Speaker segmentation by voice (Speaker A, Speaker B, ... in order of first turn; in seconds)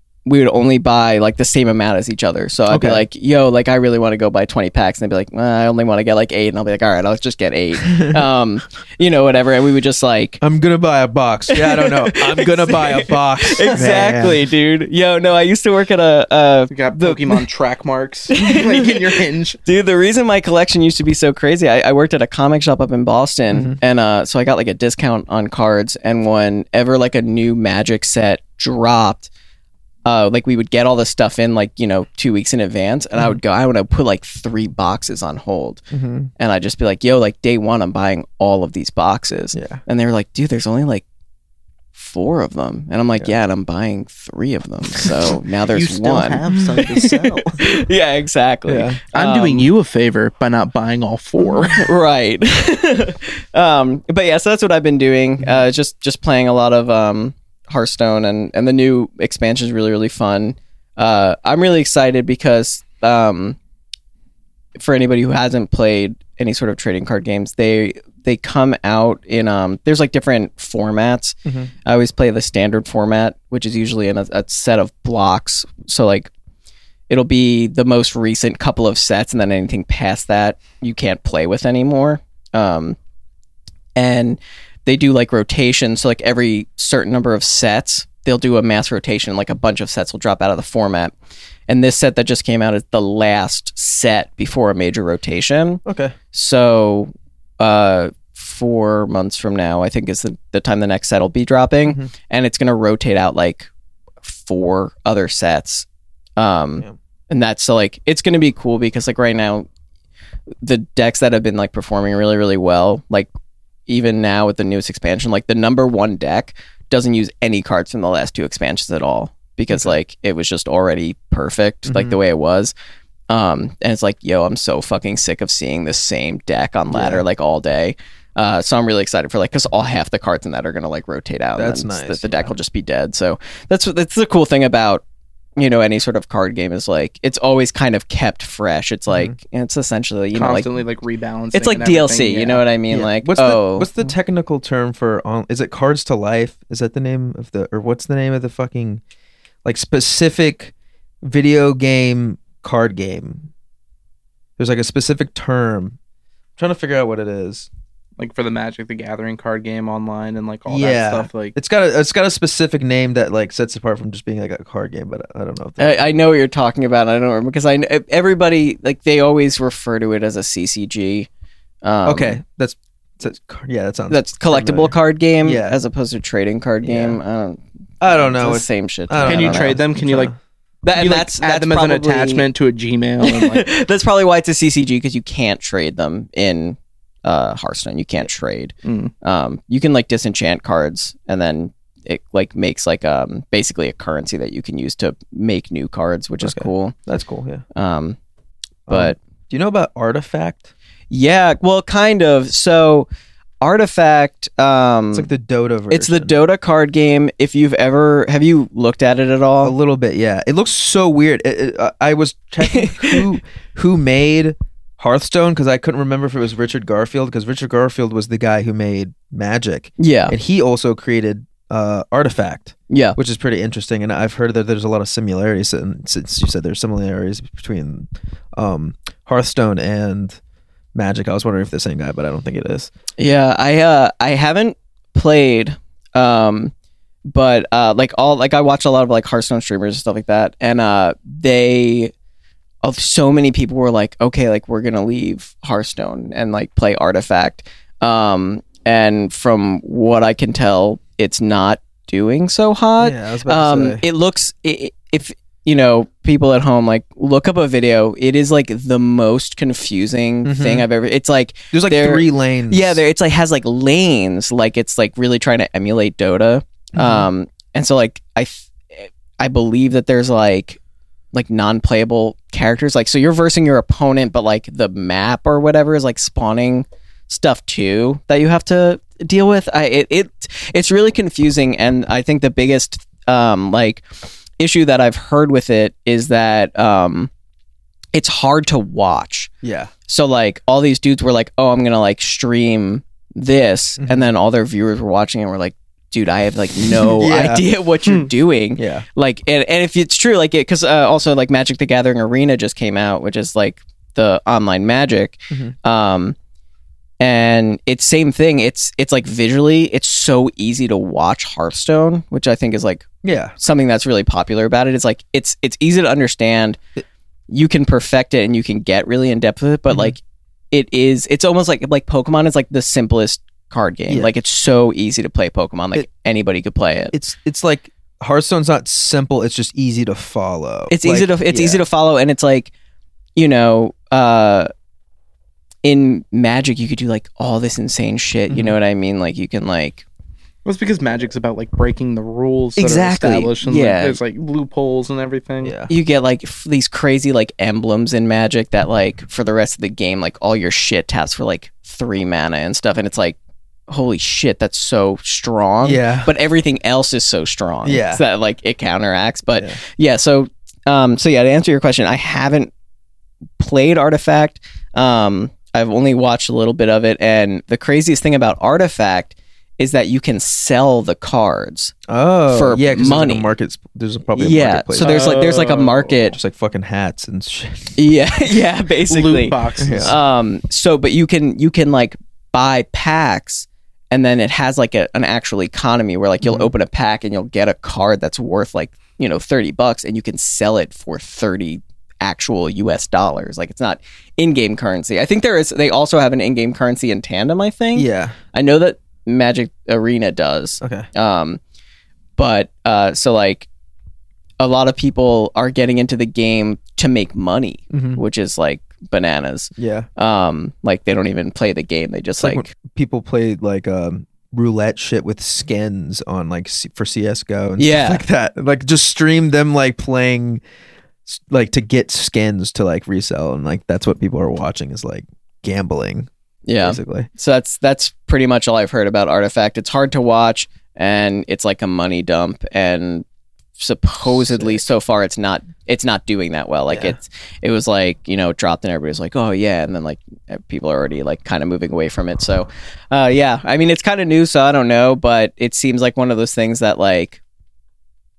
Speaker A: 0.2-10.4, 11.5-17.4, 18.3-18.9, 19.6-29.3, 30.0-35.8, 36.4-41.0, 41.9-46.4, 47.6-49.7, 51.7-63.6, 64.7-76.3, 77.1-83.0, 84.0-91.1, 91.7-103.7, 104.2-105.8, 106.4-109.7, 110.6-113.3, 113.9-122.7, 123.3-135.0, 135.6-140.7, 141.5-143.9, 165.8-171.3, 171.8-172.4, 174.1-179.8, 180.8-182.4, 183.2-196.9, 197.7-198.2, 198.9-199.2, 201.1-203.1, 203.6-205.3, 205.9-209.7, 212.6-213.2, 220.0-220.3, 222.9-223.2, 233.2-236.7, 237.2-242.1, 242.8-270.8, 271.3-284.0, 284.6-287.3, 288.1-289.5, 290.1-306.4, 307.2-313.1, 313.6-316.8, 317.5-327.1, 330.9-332.7, 333.4-334.7, 335.8-340.0, 342.8-344.2, 345.9-353.4, 353.9-362.7, 363.6-371.9, 372.5-373.5, 374.4-376.4, 377.9-401.6, 402.4-403.7, 404.6-412.7, 417.8-418.2, 426.6-433.2, 433.8-447.4
Speaker B: 2.7-3.0, 7.8-8.2, 10.4-14.4, 23.5-23.8, 35.9-36.3, 39.5-39.8, 46.7-47.2, 48.7-49.0, 71.4-71.7, 95.8-96.1, 101.8-102.1, 119.7-120.0, 121.8-122.2, 126.9-127.2, 131.6-132.5, 139.1-139.3, 142.9-149.0, 149.6-153.5, 154.6-156.0, 156.6-157.7, 160.7-166.1, 172.0-175.8, 176.8-177.2, 178.0-180.3, 196.4-197.6, 198.9-200.7, 205.1-206.3, 209.6-230.4, 230.9-232.9, 253.0-254.0, 260.4-260.9, 261.7-263.0, 266.9-267.3, 289.6-289.9, 294.0-294.3, 297.0-297.6, 298.8-299.0, 313.2-313.6, 324.1-324.3, 327.1-331.8, 338.5-338.8, 342.8-343.2, 345.6-345.9, 355.8-356.3, 357.8-358.2, 372.1-375.5, 376.2-378.0, 379.8-380.2, 386.4-386.7, 397.9-398.4, 400.8-401.1, 407.9-408.2, 409.8-410.1, 412.4-420.6, 421.3-426.3, 426.8-427.3, 434.3-434.8, 436.9-437.2
Speaker C: 13.8-14.1, 16.7-19.6, 45.7-47.7, 49.1-51.9, 140.3-142.6, 158.2-161.5, 179.2-180.3, 180.9-183.7, 188.8-189.1, 340.6-345.7, 375.0-376.1, 379.1-380.1